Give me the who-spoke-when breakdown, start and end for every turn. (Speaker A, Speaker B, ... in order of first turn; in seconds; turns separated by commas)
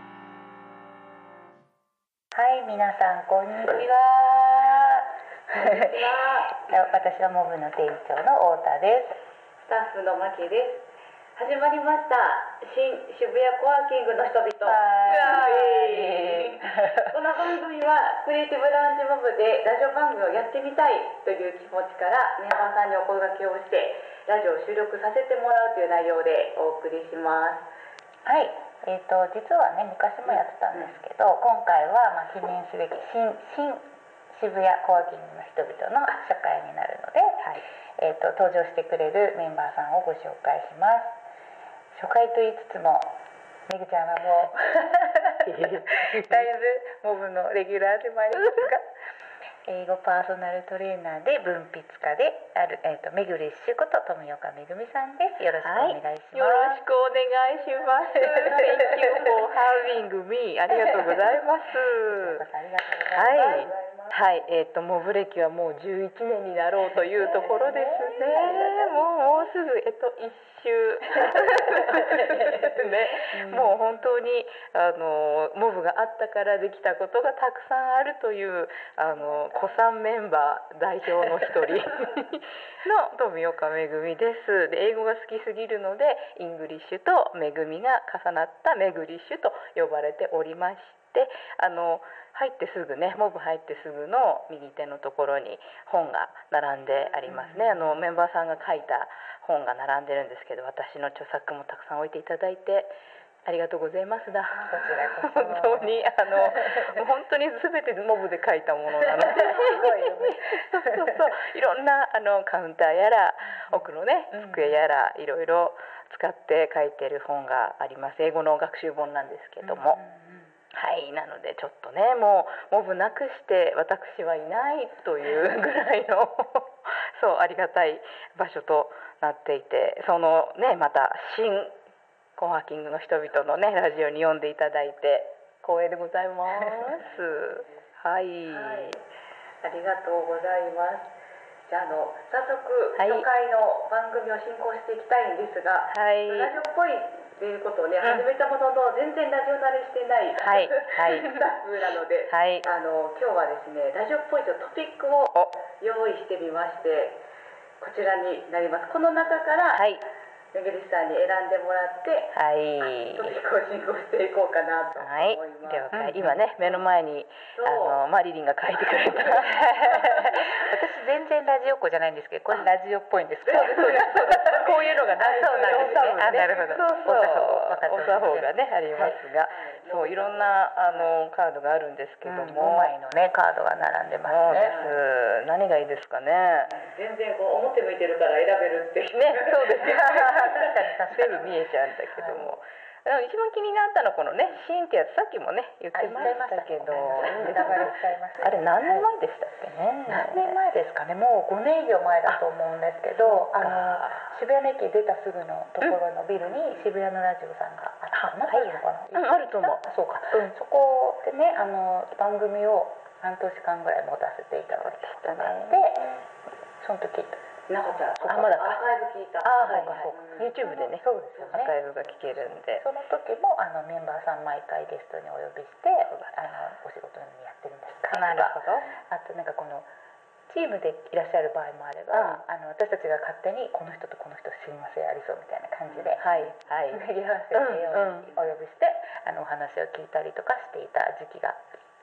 Speaker A: 2.3-5.0, Speaker B: 5.5-6.7, Speaker A: 5.6-6.0, Speaker A: 6.7-9.2, Speaker B: 9.6-10.8, Speaker B: 11.4-27.7, Speaker A: 14.6-17.0, Speaker C: 15.0-15.7, Speaker A: 28.2-41.1, Speaker A: 41.9-43.1, Speaker A: 43.7-48.9, Speaker C: 45.4-46.5, Speaker C: 48.3-48.7, Speaker A: 49.6-56.8, Speaker C: 55.6-62.4, Speaker B: 58.1-59.3, Speaker A: 58.2-59.3, Speaker A: 60.9-61.2, Speaker A: 62.0-63.7, Speaker C: 63.1-102.9, Speaker B: 63.1-64.2, Speaker A: 66.9-69.4, Speaker B: 67.2-68.8, Speaker A: 71.9-72.6, Speaker A: 73.3-73.8, Speaker A: 79.0-79.8, Speaker A: 81.2-81.5, Speaker B: 96.9-97.3, Speaker A: 97.2-98.0, Speaker C: 103.5-120.0, Speaker A: 104.6-107.0, Speaker A: 108.9-111.4, Speaker A: 113.6-114.8, Speaker A: 119.6-120.5, Speaker C: 120.7-131.8, Speaker C: 132.4-139.0, Speaker B: 136.8-137.8, Speaker B: 138.4-139.0, Speaker B: 139.6-141.1, Speaker B: 141.7-157.2, Speaker C: 143.0-143.3, Speaker C: 145.9-146.5, Speaker C: 148.0-148.3, Speaker C: 150.4-151.4, Speaker C: 152.3-152.7, Speaker B: 157.8-159.9, Speaker C: 159.7-160.0, Speaker B: 160.5-162.4, Speaker C: 162.3-163.4, Speaker B: 163.0-166.0, Speaker C: 165.0-169.7, Speaker A: 165.9-166.4, Speaker B: 166.6-166.9, Speaker B: 167.6-168.0, Speaker B: 168.8-170.3, Speaker A: 169.6-174.6, Speaker B: 173.4-177.1, Speaker C: 173.5-182.9, Speaker A: 175.2-179.2, Speaker B: 179.0-181.2, Speaker A: 182.2-184.8, Speaker C: 184.2-186.8, Speaker B: 184.5-185.0, Speaker B: 186.7-190.8, Speaker C: 189.1-190.1, Speaker A: 189.8-192.6, Speaker C: 191.1-200.6, Speaker B: 194.3-194.6, Speaker A: 195.9-199.1, Speaker B: 196.1-196.4, Speaker B: 197.2-197.9, Speaker A: 200.1-216.2, Speaker C: 203.2-204.4, Speaker C: 208.1-210.6, Speaker C: 214.7-215.9, Speaker A: 216.8-217.4, Speaker B: 217.7-220.8, Speaker C: 218.3-218.8, Speaker C: 219.4-222.8, Speaker A: 219.6-221.8, Speaker A: 222.6-229.9, Speaker C: 226.1-226.6, Speaker C: 228.1-228.9, Speaker A: 230.5-236.2, Speaker C: 232.1-232.4, Speaker B: 235.9-236.5, Speaker C: 236.2-238.4, Speaker A: 236.9-241.6